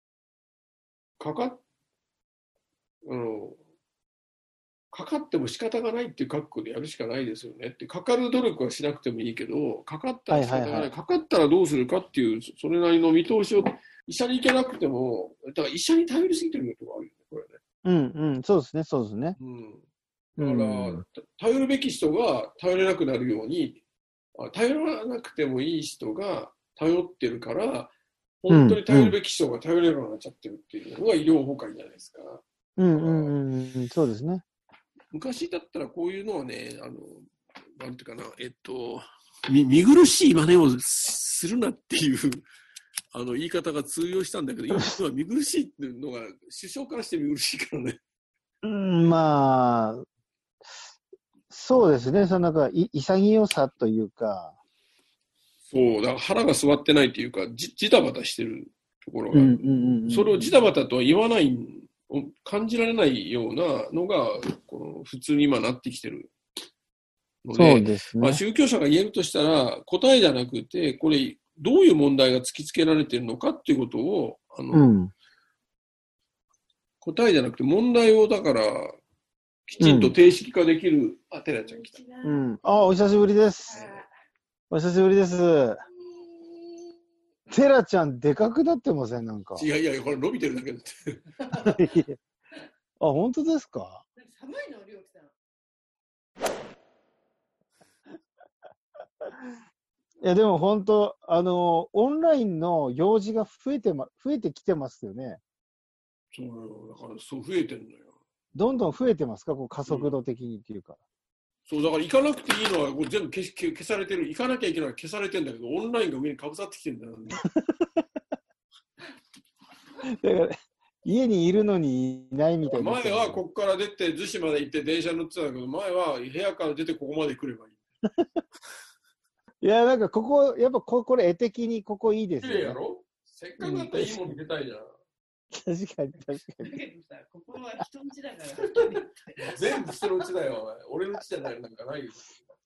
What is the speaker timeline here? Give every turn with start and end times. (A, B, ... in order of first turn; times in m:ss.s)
0:01.2-0:01.6 A
0:03.0-0:03.6 A
0:04.9-0:17.6 A
0:10.3-0:10.9 B
0:17.8-0:19.4 B
0:19.4-0:19.8 A
0:20.4-0:21.0 B
0:20.4-0:23.8 A
0:24.4-0:33.4 A
0:28.5-0:29.2 B
0:32.8-0:34.4 B
0:35.1-0:42.4 A
0:43.1-0:48.0 A
0:48.6-0:50.0 B
0:51.5-0:54.6 B
0:55.7-1:06.3 A
0:59.3-1:00.5 B
1:07.4-1:14.9 A
1:07.5-1:08.4 B
1:14.7-1:15.1 B
1:17.0-1:18.9 A
1:19.7-1:22.0 A
1:19.8-1:20.2 B
1:21.6-1:22.4 C
1:22.2-1:23.8 B
1:23.6-1:24.1 C
1:23.7-1:24.0 A
1:24.7-1:25.8 B
1:26.0-1:27.0 C
1:27.5-1:29.7 B
1:29.6-1:31.3 A
1:31.5-1:31.8 C
1:31.5-1:32.2 B
1:33.0-1:34.0 B
1:34.2-1:35.3 C
1:40.2-1:45.4 B
1:46.3-1:48.2 A
1:48.5-1:51.0 B
1:49.8-1:50.1 A
1:51.6-1:57.4 A
1:57.4-1:58.0 B
2:00.1-2:03.4 B
2:02.6-2:07.8 A
2:09.6-2:12.8 B
2:12.4-2:14.9 A
2:13.6-2:14.4 B
2:15.5-2:16.8 B
2:16.6-2:20.2 C
2:19.5-2:22.5 A